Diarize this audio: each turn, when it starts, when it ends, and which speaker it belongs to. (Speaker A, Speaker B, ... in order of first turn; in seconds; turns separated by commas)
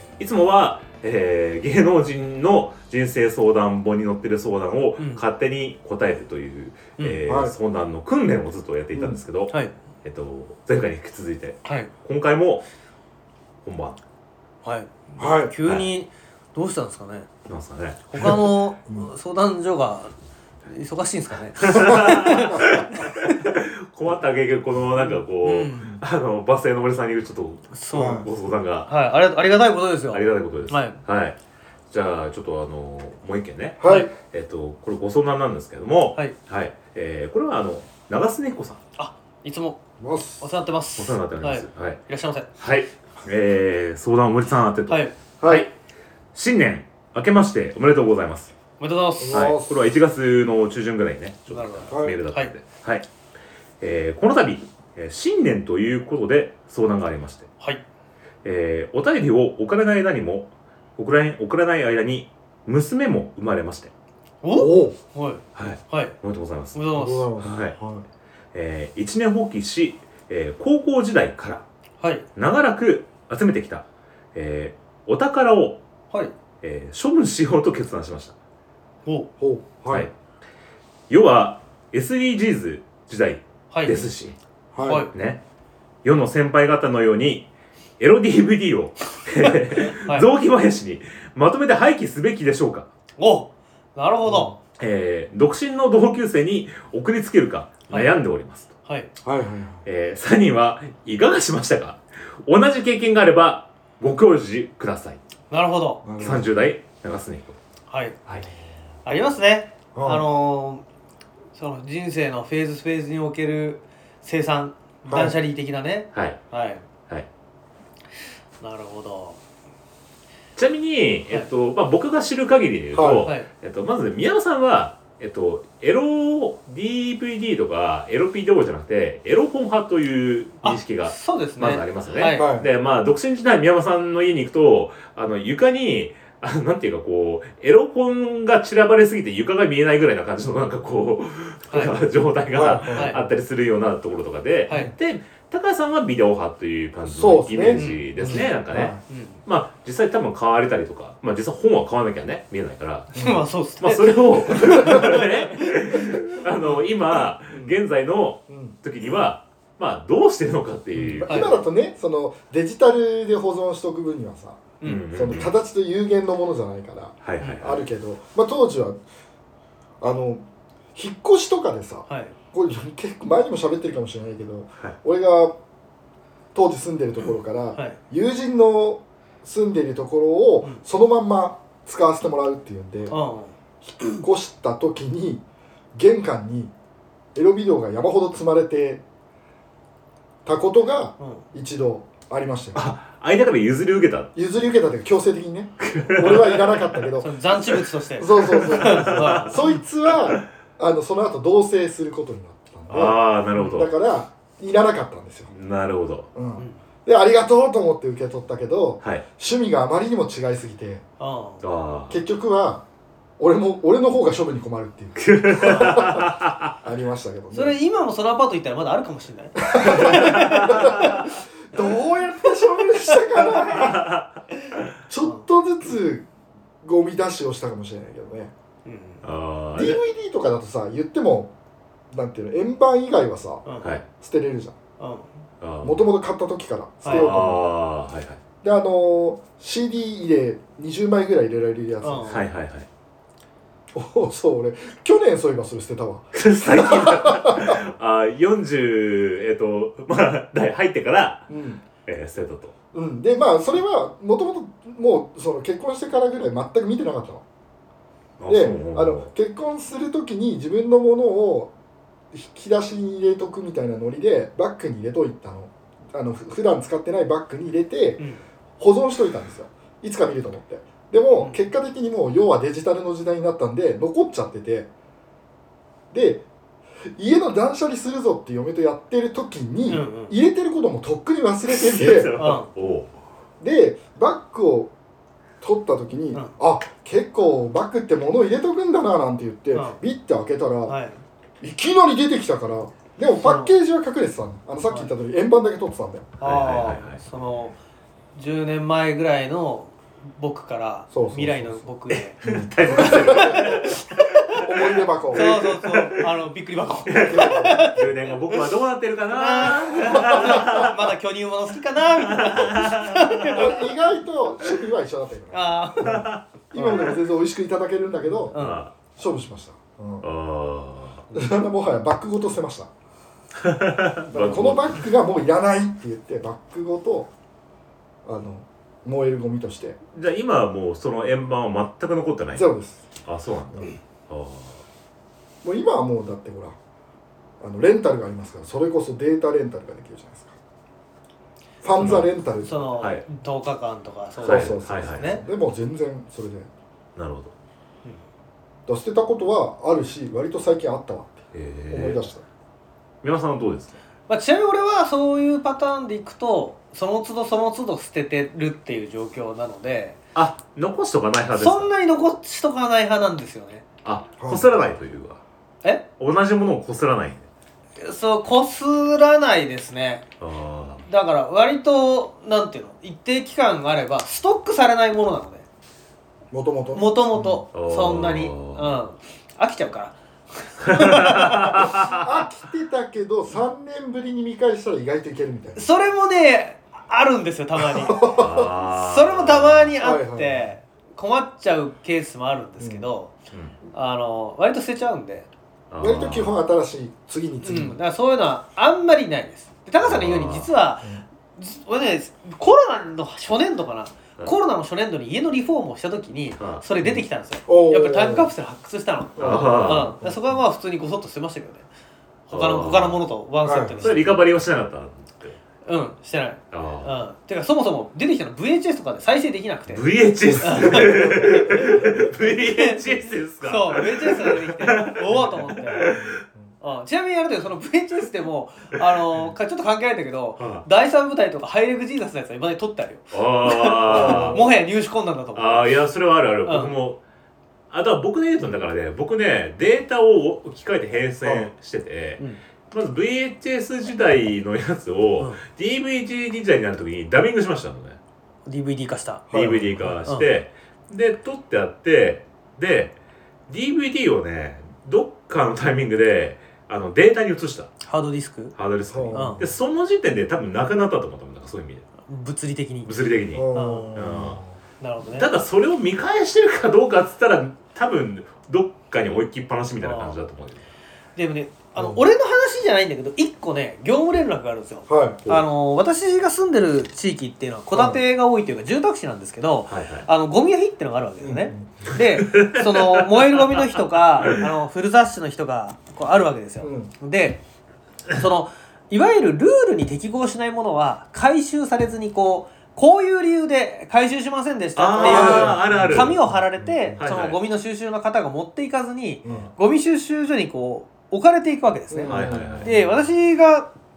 Speaker A: 0.2-12.7, Speaker B: 7.3-7.5, Speaker B: 8.9-9.2, Speaker C: 11.6-11.9, Speaker A: 13.6-14.0, Speaker C: 14.6-17.3, Speaker B: 15.2-15.5, Speaker A: 17.5-18.4, Speaker C: 18.1-20.1, Speaker B: 18.2-19.1, Speaker C: 20.7-23.5, Speaker A: 21.6-28.9, Speaker B: 22.5-22.8, Speaker C: 25.1-26.0, Speaker C: 27.7-28.3, Speaker B: 27.9-28.3, Speaker C: 28.9-31.0, Speaker A: 30.1-31.4, Speaker A: 31.9-38.8, Speaker B: 33.8-34.1, Speaker C: 33.9-34.1, Speaker C: 39.0-39.8, Speaker B: 40.0-40.4, Speaker C: 40.4-42.5, Speaker A: 41.0-42.0, Speaker A: 42.6-45.7, Speaker C: 44.9-45.1, Speaker A: 46.3-48.5, Speaker C: 48.8-49.5, Speaker B: 49.2-49.7, Speaker A: 49.3-53.1, Speaker C: 51.5-52.5, Speaker B: 51.9-52.2, Speaker A: 53.8-57.5, Speaker A: 58.4-63.9, Speaker C: 64.4-66.2, Speaker B: 64.6-65.0, Speaker A: 65.6-66.8, Speaker C: 66.7-67.4, Speaker B: 67.0-68.0, Speaker A: 67.4-67.8, Speaker A: 68.5-71.6, Speaker C: 72.0-72.3, Speaker A: 72.4-75.8, Speaker A: 76.6-78.3, Speaker C: 79.0-79.3, Speaker B: 79.4-80.1, Speaker A: 81.1-84.4, Speaker C: 83.7-84.0, Speaker B: 84.7-85.1, Speaker C: 84.8-85.1, Speaker A: 85.1-85.4, Speaker A: 86.0-92.9, Speaker C: 89.4-90.3, Speaker C: 93.2-94.6, Speaker B: 94.2-94.6, Speaker A: 94.8-98.7, Speaker C: 97.9-98.2, Speaker C: 98.8-99.1, Speaker B: 99.2-99.8, Speaker A: 99.8-105.2, Speaker C: 105.5-106.1, Speaker B: 106.0-106.5, Speaker A: 106.2-107.6, Speaker C: 107.9-108.2, Speaker C: 109.0-110.8, Speaker B: 110.0-110.2, Speaker C: 111.5-116.8, Speaker B: 115.1-115.3, Speaker A: 116.1-116.4, Speaker C: 118.6-119.4, Speaker A: 120.6-153.2, Speaker B: 122.9-123.3, Speaker C: 130.6-132.5, Speaker B: 132.3-132.7, Speaker C: 141.7-141.9, Speaker B: 142.5-143.2, Speaker C: 142.9-143.2, Speaker B: 147.1-149.0, Speaker C: 147.7-148.3, Speaker C: 149.1-149.4, Speaker B: 153.1-153.4, Speaker C: 153.2-156.2, Speaker A: 153.8-161.6, Speaker B: 154.6-155.1, Speaker B: 157.5-157.8, Speaker B: 158.5-158.8, Speaker B: 160.9-169.0, Speaker C: 161.2-161.6, Speaker A: 164.8-165.5, Speaker A: 167.2-167.8, Speaker B: 170.0-175.6, Speaker C: 172.1-172.3, Speaker B: 176.5-183.2, Speaker C: 183.1-184.2, Speaker B: 184.0-185.4, Speaker B: 185.9-186.7, Speaker B: 187.3-189.0, Speaker B: 190.4-192.8, Speaker C: 191.2-191.4, Speaker A: 192.8-194.3, Speaker B: 194.4-197.3, Speaker A: 195.8-197.0, Speaker C: 197.2-199.6, Speaker B: 198.2-203.2, Speaker A: 198.5-199.7, Speaker A: 202.9-203.9, Speaker C: 203.6-203.8, Speaker B: 203.7-205.5, Speaker A: 205.5-206.3, Speaker B: 206.3-211.0, Speaker C: 211.2-211.6, Speaker A: 211.6-212.2, Speaker B: 212.1-212.8, Speaker B: 213.4-216.3, Speaker A: 215.2-216.7, Speaker B: 216.8-217.8, Speaker C: 217.5-221.1, Speaker B: 219.6-224.1, Speaker A: 219.9-221.3, Speaker A: 223.5-224.4, Speaker B: 225.1-226.3, Speaker B: 226.8-228.5, Speaker C: 228.8-229.2, Speaker A: 229.2-230.0, Speaker B: 229.7-231.5, Speaker B: 232.1-233.6, Speaker C: 233.7-233.9, Speaker B: 234.2-234.8, Speaker C: 235.0-235.3, Speaker A: 235.6-236.0, Speaker B: 235.8-237.7, Speaker A: 237.0-238.4, Speaker C: 237.0-237.4, Speaker B: 238.6-242.4, Speaker C: 242.0-242.4, Speaker A: 242.3-242.9, Speaker B: 243.9-247.8, Speaker A: 246.3-251.5, Speaker B: 251.5-251.8, Speaker A: 252.1-252.7, Speaker B: 252.9-257.4, Speaker A: 258.4-259.3, Speaker B: 258.5-261.7, Speaker B: 262.3-268.2, Speaker B: 268.8-274.9, Speaker B: 276.1-276.5, Speaker B: 277.2-282.4, Speaker C: 279.9-280.4, Speaker A: 281.7-283.1, Speaker C: 282.4-282.7, Speaker B: 283.6-284.9, Speaker B: 285.6-291.0, Speaker C: 289.7-290.0, Speaker C: 290.9-291.2, Speaker B: 291.6-296.3, Speaker C: 293.4-293.7, Speaker C: 296.4-297.8, Speaker A: 296.4-297.2, Speaker C: 298.4-302.4, Speaker B: 301.1-301.9, Speaker A: 302.4-306.3, Speaker B: 302.4-303.9, Speaker C: 303.0-304.6, Speaker B: 304.6-305.6, Speaker C: 305.3-308.6, Speaker A: 307.1-311.1, Speaker B: 307.2-307.9, Speaker C: 309.3-313.8, Speaker B: 310.0-310.9, Speaker A: 312.2-313.6, Speaker B: 313.5-316.2, Speaker C: 315.5-317.1, Speaker A: 316.0-317.0, Speaker B: 316.7-320.3, Speaker C: 318.5-318.9, Speaker A: 318.5-318.9, Speaker A: 320.2-321.3, Speaker B: 321.3-322.9, Speaker A: 323.6-325.1, Speaker B: 324.3-327.3, Speaker B: 328.2-330.0, Speaker A: 330.1-332.7, Speaker B: 332.5-333.0, Speaker A: 333.2-334.8, Speaker B: 335.6-336.8, Speaker B: 337.6-340.6, Speaker B: 341.8-342.8, Speaker A: 342.0-342.3, Speaker C: 342.6-345.4, Speaker A: 344.4-345.3, Speaker B: 344.4-346.7, Speaker A: 347.2-347.5, Speaker B: 348.9-352.4, Speaker A: 351.5-352.2, Speaker A: 353.2-354.0, Speaker C: 354.3-360.2, Speaker A: 360.4-361.9, Speaker C: 361.6-363.8, Speaker A: 364.0-365.4, Speaker B: 364.4-364.7, Speaker A: 366.2-367.5, Speaker C: 368.0-370.2, Speaker A: 370.4-371.1, Speaker C: 371.1-375.7, Speaker B: 376.5-377.6, Speaker C: 376.9-382.0, Speaker A: 377.7-378.9, Speaker A: 380.9-382.4, Speaker B: 381.9-385.9, Speaker C: 385.8-393.3, Speaker B: 387.8-388.7, Speaker A: 388.2-389.9, Speaker B: 390.0-390.7, Speaker A: 393.5-393.8, Speaker C: 393.9-395.5, Speaker A: 395.9-396.6, Speaker B: 396.0-398.0, Speaker C: 397.6-411.9, Speaker A: 400.0-400.7, Speaker A: 406.6-407.1, Speaker B: 407.7-408.5, Speaker B: 409.4-410.6, Speaker A: 409.4-410.1, Speaker A: 412.5-413.2, Speaker C: 412.5-414.4, Speaker B: 413.6-414.3, Speaker A: 414.0-415.6, Speaker C: 415.9-420.1, Speaker A: 416.7-417.1, Speaker A: 419.9-426.4, Speaker B: 420.4-421.9, Speaker C: 420.6-423.0, Speaker C: 423.6-426.1, Speaker B: 425.3-426.4, Speaker C: 426.8-436.0, Speaker A: 430.6-430.9, Speaker A: 433.3-434.6, Speaker B: 434.1-434.6, Speaker A: 435.6-437.2, Speaker C: 436.7-436.9, Speaker A: 437.9-448.2, Speaker B: 441.4-441.7, Speaker C: 448.7-449.5, Speaker B: 449.5-450.2, Speaker A: 449.5-453.2, Speaker A: 453.7-457.9, Speaker C: 458.0-458.8, Speaker A: 458.8-462.1, Speaker B: 459.1-459.7, Speaker C: 459.3-459.6, Speaker C: 462.3-463.1, Speaker A: 463.0-464.6, Speaker B: 463.5-464.7, Speaker C: 463.7-464.2, Speaker C: 465.0-465.5, Speaker A: 465.3-470.9, Speaker C: 470.0-470.4, Speaker C: 471.4-487.6, Speaker B: 475.1-475.4, Speaker B: 477.9-478.2, Speaker A: 479.9-480.3, Speaker B: 481.4-482.1, Speaker A: 482.4-483.8, Speaker B: 486.8-487.1, Speaker C: 488.3-503.9, Speaker A: 495.0-496.4, Speaker B: 495.2-497.2, Speaker A: 497.2-497.6, Speaker B: 499.4-499.7, Speaker B: 502.1-503.1, Speaker A: 502.3-503.0